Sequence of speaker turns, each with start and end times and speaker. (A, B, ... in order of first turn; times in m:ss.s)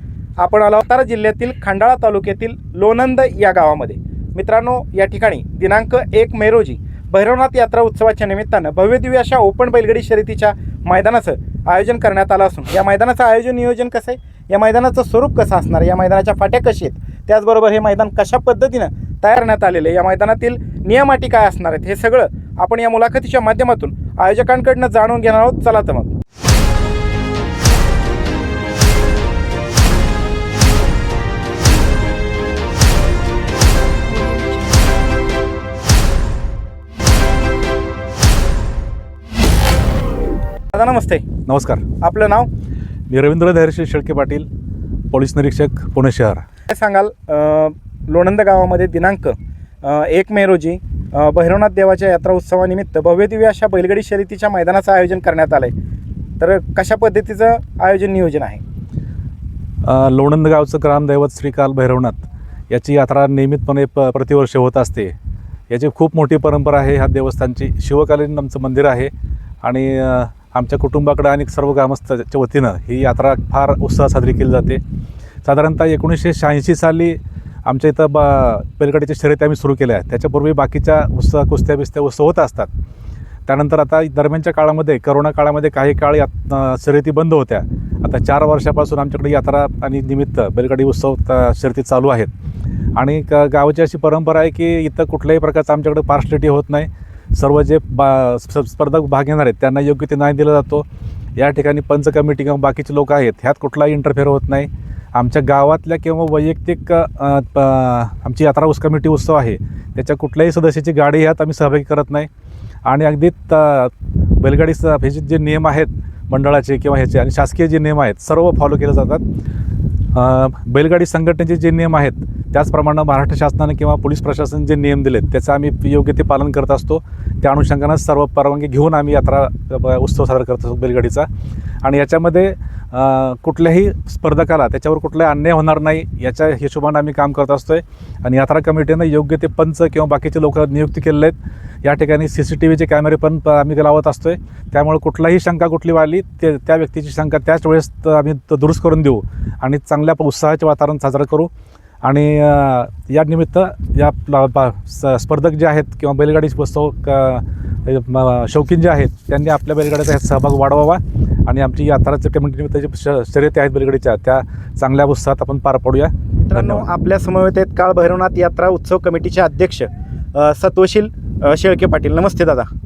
0:00.4-0:26.1 A
0:40.7-0:41.2 A
0:41.5-0:41.8 B
0:42.0-0:42.5 A
0:43.1-0:44.5 B
0:45.1-0:46.4 B
0:46.7-0:55.7 A
0:56.4-0:58.6 A
0:59.8-1:05.1 B
1:05.7-1:09.1 B
1:09.6-1:14.8 B
1:15.4-1:22.7 B
1:23.5-1:32.3 B
1:33.0-1:40.8 B
1:41.4-1:52.3 B
1:52.9-1:59.2 B
2:00.2-2:11.3 B
2:11.8-2:31.5 B
2:32.0-2:46.8 B
2:46.4-2:52.7 A